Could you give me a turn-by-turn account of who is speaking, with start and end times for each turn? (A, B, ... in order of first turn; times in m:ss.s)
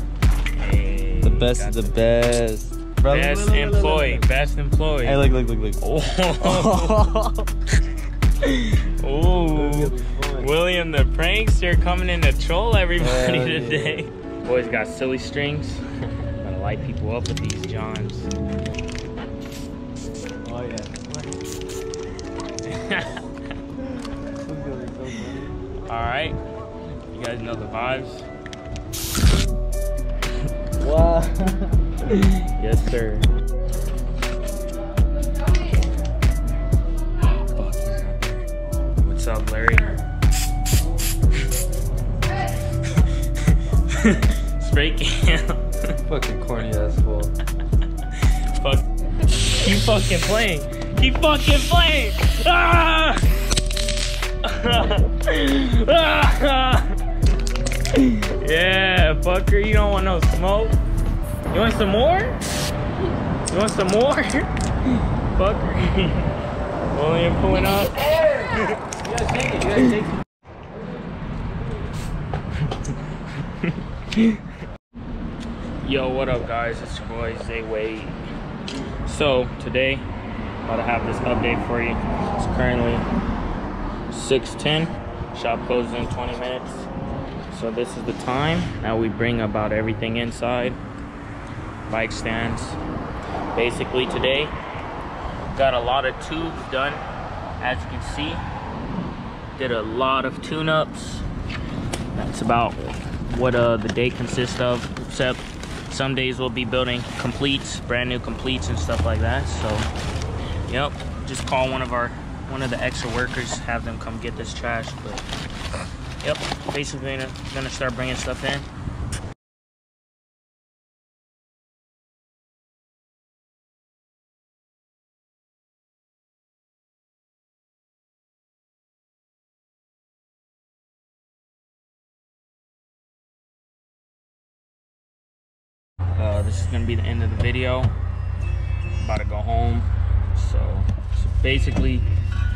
0:00.5-0:02.4 A
0:01.2-0:04.3 B
0:03.1-0:07.1 A
0:05.0-0:05.8 B
0:06.4-0:07.5 B
0:08.4-0:15.8 A
0:09.4-0:10.5 B
0:13.0-0:14.1 B
0:16.4-0:18.3 A
0:20.4-0:21.4 B
0:22.6-0:23.2 A
0:24.1-0:25.6 B
0:25.9-0:26.4 A
0:27.1-0:28.3 A
0:30.8-0:31.9 B
0:32.1-0:33.3 A
0:37.3-0:38.5 A
0:39.0-0:39.9 A
0:43.0-0:46.0 A
0:46.1-0:47.3 B
0:48.1-0:53.3 A
0:54.4-0:57.0 A
0:57.9-1:00.8 A
1:01.5-1:02.4 A
1:03.5-1:06.4 A
1:06.9-1:10.2 A
1:12.7-1:14.4 A
1:15.8-1:18.3 A
1:19.0-1:20.1 A
1:20.6-1:23.1 A
1:24.1-1:26.9 A
1:27.5-1:30.8 A
1:31.9-1:32.8 A
1:33.5-1:34.6 A
1:35.5-1:37.0 A
1:37.6-1:38.4 A
1:39.6-1:41.3 A
1:42.1-1:49.9 A
1:50.7-1:55.3 A
1:56.2-1:58.7 A
2:16.2-2:17.9 A
2:19.0-2:22.1 A